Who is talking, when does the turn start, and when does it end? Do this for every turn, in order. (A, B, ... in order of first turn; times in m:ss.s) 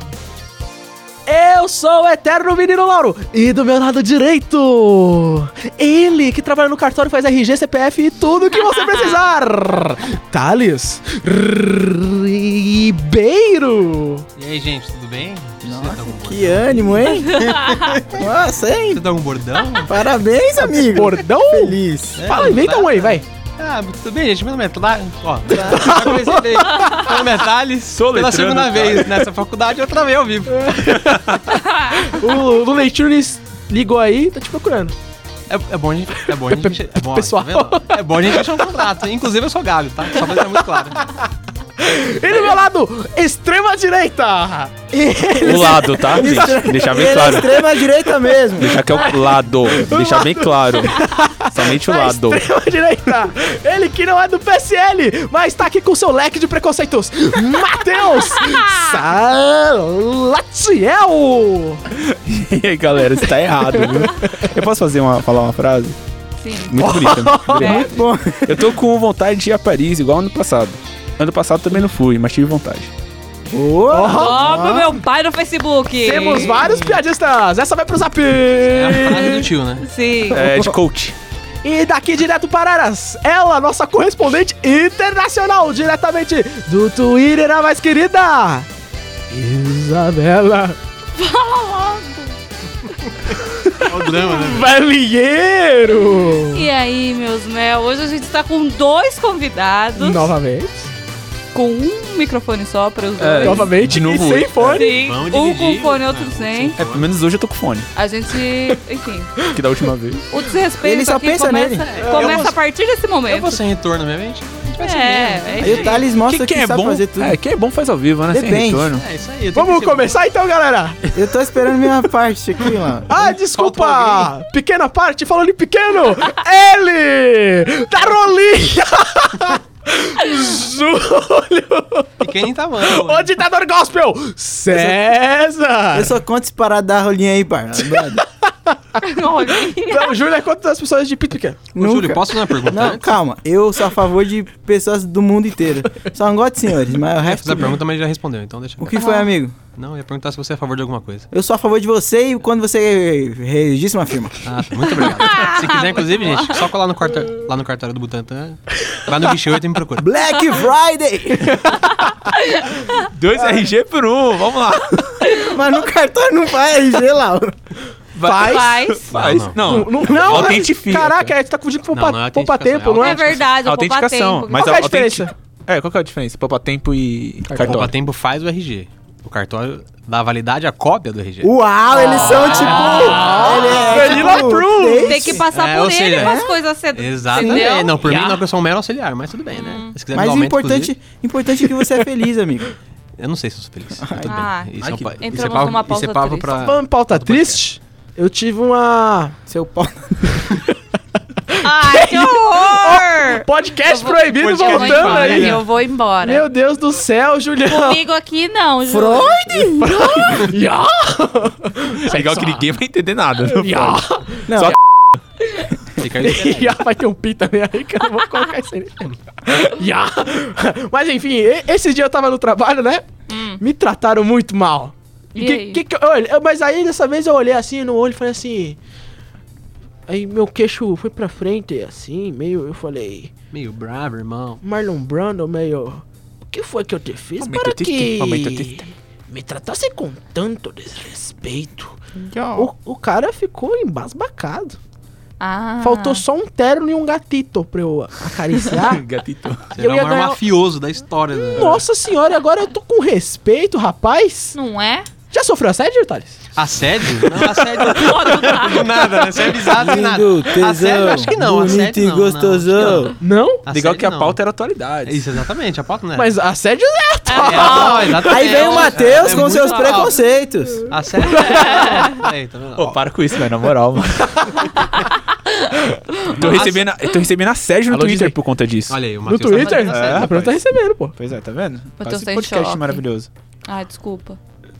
0:01.2-0:14.2 A
0:08.7-0:09.2 B
0:14.4-0:18.1 C
0:15.6-0:17.6 D
0:17.3-0:18.0 B
0:18.1-0:19.0 D
0:18.9-0:19.9 C
0:19.8-0:22.3 D
0:20.8-0:23.2 A
0:22.2-0:30.7 C
0:25.5-0:26.0 D
0:25.5-0:27.2 A
0:27.9-0:29.3 E
0:30.5-0:31.4 A
0:30.9-0:31.4 E
0:31.5-0:32.0 B
0:31.9-0:34.9 A
0:35.5-0:41.0 C
0:36.3-0:38.8 A
0:40.2-0:40.6 A
0:41.8-1:01.8 A
0:45.4-0:47.6 E
0:46.1-0:48.8 D
0:48.6-0:52.4 E
0:58.4-0:58.9 B
1:02.0-1:06.0 E
1:03.5-1:04.5 A
1:06.4-1:08.0 B
1:06.7-1:07.8 E
1:06.8-1:07.7 A
1:07.6-1:08.7 D
1:08.4-1:12.9 E
1:13.5-1:15.0 D
1:13.9-1:14.4 A
1:14.1-1:16.7 B
1:16.0-1:19.5 A
1:18.6-1:19.8 C
1:19.8-1:20.4 B
1:20.3-1:21.1 E
1:21.6-1:28.7 A
1:29.3-1:30.8 A
1:31.2-1:32.3 B
1:33.8-1:34.7 C
1:33.9-1:36.6 A
1:36.5-1:40.3 B
1:40.0-1:40.9 A
1:41.5-1:43.7 B
1:43.2-1:44.8 E
1:43.4-1:44.9 A
1:44.7-1:46.8 B
1:45.0-1:47.1 C
1:46.8-1:47.9 E
1:47.9-1:49.3 B
1:49.5-1:50.2 E
1:50.3-1:53.6 B
1:50.8-1:51.8 D
1:51.9-1:52.5 C
1:52.0-1:52.5 A
1:53.3-1:56.0 C
1:54.8-1:55.9 B
1:55.6-1:57.4 D
1:56.2-1:59.0 E
1:58.3-1:58.9 D
1:58.9-2:00.2 C
1:59.5-2:01.1 A
2:01.1-2:03.3 D
2:03.1-2:12.2 A
2:03.5-2:04.3 C
2:12.2-2:13.3 C
2:12.8-2:16.1 A
2:15.9-2:18.2 D
2:18.2-2:19.0 A
2:19.0-2:20.1 B
2:19.8-2:21.6 A
2:21.7-2:27.8 D
2:21.8-2:23.2 C
2:27.2-2:28.9 C
2:28.8-2:29.6 D
2:28.9-2:29.3 B
2:29.7-2:31.3 C
2:31.3-2:34.5 D
2:34.4-2:40.1 C
2:35.2-2:36.6 B
2:40.0-2:41.6 D
2:41.4-2:41.8 A
2:42.3-2:43.0 B
2:43.0-2:45.3 E
2:45.4-2:47.5 D
2:48.1-2:51.3 E
2:48.2-2:48.8 A
2:48.2-2:49.2 B
2:49.1-2:49.9 C
2:49.6-2:53.2 A
2:51.9-2:53.4 C
2:53.0-2:54.7 B
2:53.6-2:57.9 E
2:54.6-2:55.3 A
2:57.5-2:57.8 A
2:57.6-3:01.5 C
3:01.4-3:05.4 D
3:02.0-3:05.4 A
3:02.1-3:04.2 C
3:02.2-3:04.4 B
3:05.0-3:08.2 B
3:05.5-3:06.4 C
3:06.1-3:06.6 D
3:06.9-3:10.9 C
3:07.4-3:08.4 A
3:09.5-3:09.9 B
3:10.1-3:12.7 D
3:13.2-3:17.6 C
3:14.0-3:14.4 D
3:14.2-3:16.6 B
3:14.8-3:15.1 E
3:16.6-3:19.4 A
3:19.5-3:20.3 D
3:21.5-3:25.6 A
3:21.6-3:26.4 B
3:24.2-3:25.6 C
3:26.2-3:28.0 A
3:27.6-3:29.4 B
3:28.8-3:30.4 D
3:29.8-3:32.7 A
3:32.1-3:34.0 E
3:33.4-3:34.8 A
3:34.5-3:34.8 D
3:36.0-3:36.8 C
3:36.1-3:43.0 A
3:43.3-3:43.6 B
3:43.6-3:48.8 A
3:45.3-3:45.8 B
3:50.1-3:53.3 A
3:53.5-3:54.6 C
3:54.6-4:02.0 A
3:57.4-3:58.8 E
4:02.1-4:02.7 D
4:02.5-4:04.8 A
4:05.4-4:06.2 B
4:05.8-4:09.0 A
4:08.7-4:09.8 E
4:09.8-4:10.4 A
4:09.8-4:11.8 C
4:11.5-4:14.5 A
4:14.5-4:15.1 B
4:15.3-4:16.4 A
4:16.6-4:23.1 C
4:17.2-4:19.8 A
4:18.0-4:18.8 B
4:19.8-4:23.1 D
4:23.2-4:23.6 A
4:23.6-4:24.4 C
4:23.7-4:25.2 E
4:25.0-4:26.4 C
4:26.2-4:28.3 A
4:27.3-4:30.0 B
4:27.4-4:30.2 C
4:28.2-4:30.9 D
4:30.9-4:33.0 C
4:31.4-4:32.2 A
4:31.6-4:32.0 B
4:32.8-4:34.5 E
4:34.9-4:36.4 B
4:36.3-4:39.0 E
4:36.4-4:36.9 C
4:37.9-4:38.4 A
4:38.9-4:40.3 C
4:39.2-4:41.1 A
4:39.6-4:40.1 B
4:39.9-4:40.6 E
4:41.1-4:43.3 E
4:42.0-4:43.0 B
4:43.7-4:44.4 B